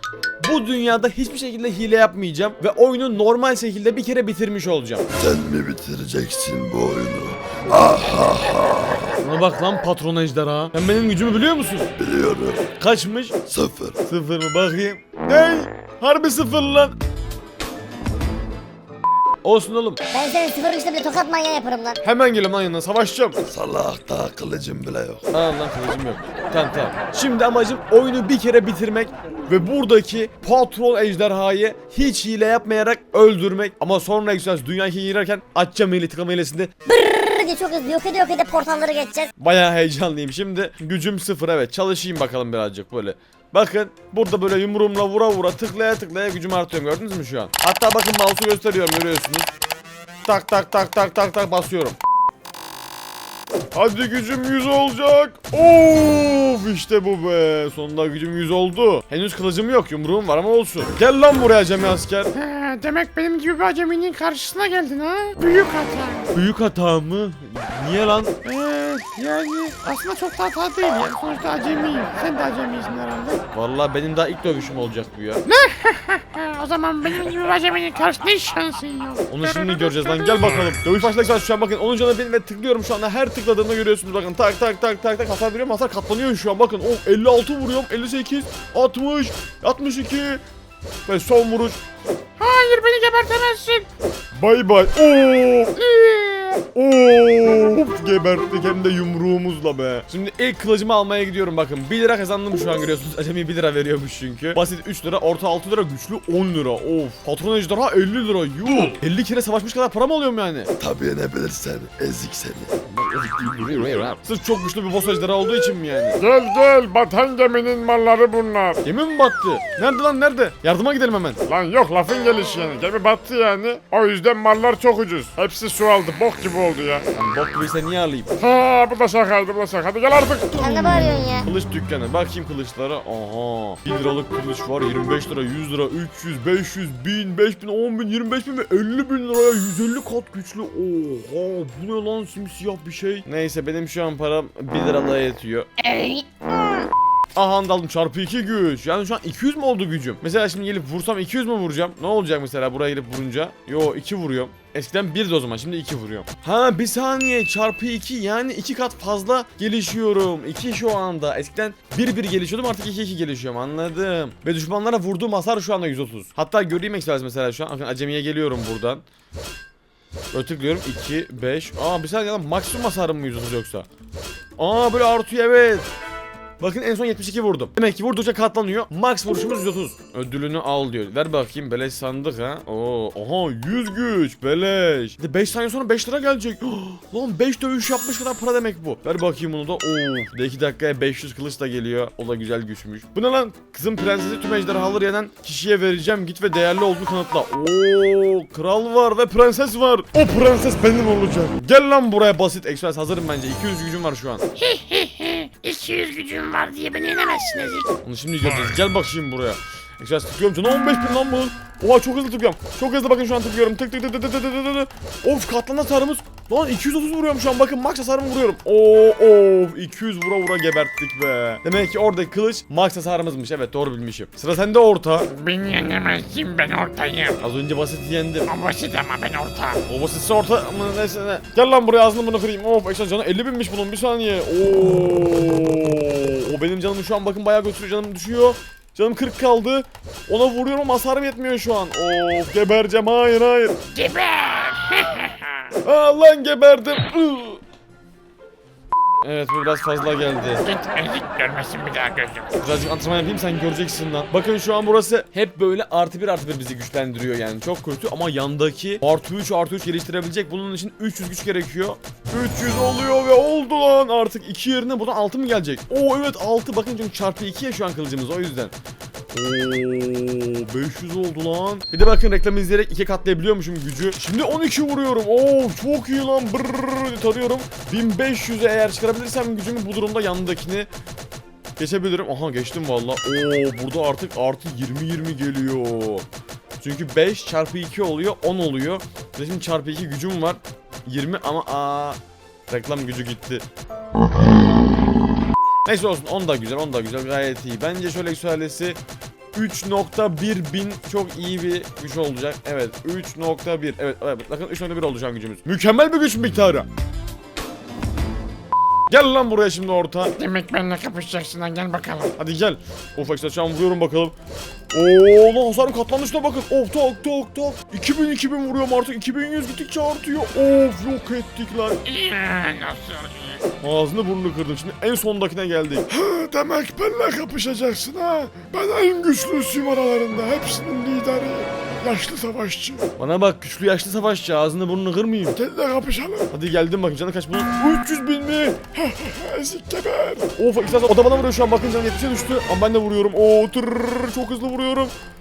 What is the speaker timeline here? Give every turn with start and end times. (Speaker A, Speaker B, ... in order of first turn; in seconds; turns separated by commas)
Speaker A: 0.4-5.1, Speaker B: 5.2-9.1, Speaker A: 9.2-11.9, Speaker B: 12.0-12.7, Speaker A: 12.7-13.4, Speaker B: 13.5-14.0, Speaker A: 14.0-17.0, Speaker A: 19.4-20.0, Speaker C: 20.1-22.0, Speaker A: 22.0-23.4, Speaker B: 23.5-25.3, Speaker A: 25.3-36.7, Speaker C: 36.9-39.3, Speaker A: 39.4-49.5, Speaker A: 50.2-52.0, Speaker A: 53.7-62.3, Speaker D: 62.3-66.3, Speaker A: 66.3-68.5, Speaker D: 68.5-73.4, Speaker A: 73.5-75.5, Speaker D: 75.5-79.8, Speaker A: 79.3-90.4, Speaker A: 91.1-91.8, Speaker D: 92.4-93.9, Speaker A: 94.4-110.7, Speaker B: 110.8-112.8, Speaker A: 113.0-116.2, Speaker D: 116.2-118.8, Speaker A: 118.8-121.4, Speaker D: 121.5-127.1, Speaker A: 127.1-128.3, Speaker D: 128.4-131.0, Speaker C: 130.5-131.5, Speaker A: 131.5-145.9, Speaker C: 145.9-146.9, Speaker A: 147.3-169.0, Speaker A: 170.3-173.9, Speaker A: 174.6-175.9, Speaker A: 176.6-204.5, Speaker D: 204.6-207.9, Speaker A: 208.0-225.3, Speaker D: 225.3-227.4, Speaker A: 227.4-228.5, Speaker D: 228.5-229.8, Speaker A: 229.9-243.9, Speaker D: 243.9-245.5, Speaker A: 245.8-247.6, Speaker A: 249.2-250.7, Speaker D: 250.7-252.6, Speaker A: 252.6-268.7, Speaker A: 269.3-280.9, Speaker A: 281.8-286.3, Speaker A: 286.8-292.2, Speaker A: 292.7-293.6, Speaker A: 295.9-299.0, Speaker A: 299.5-306.9, Speaker A: 309.1-310.4, Speaker D: 310.4-312.4, Speaker A: 312.4-314.4, Speaker A: 314.9-322.1, Speaker D: 322.1-323.6, Speaker A: 323.8-326.2, Speaker D: 326.2-333.0, Speaker A: 327.7-328.2, Speaker A: 328.8-329.1, Speaker A: 329.7-331.2, Speaker A: 333.1-335.8, Speaker D: 335.7-336.4, Speaker A: 336.4-345.1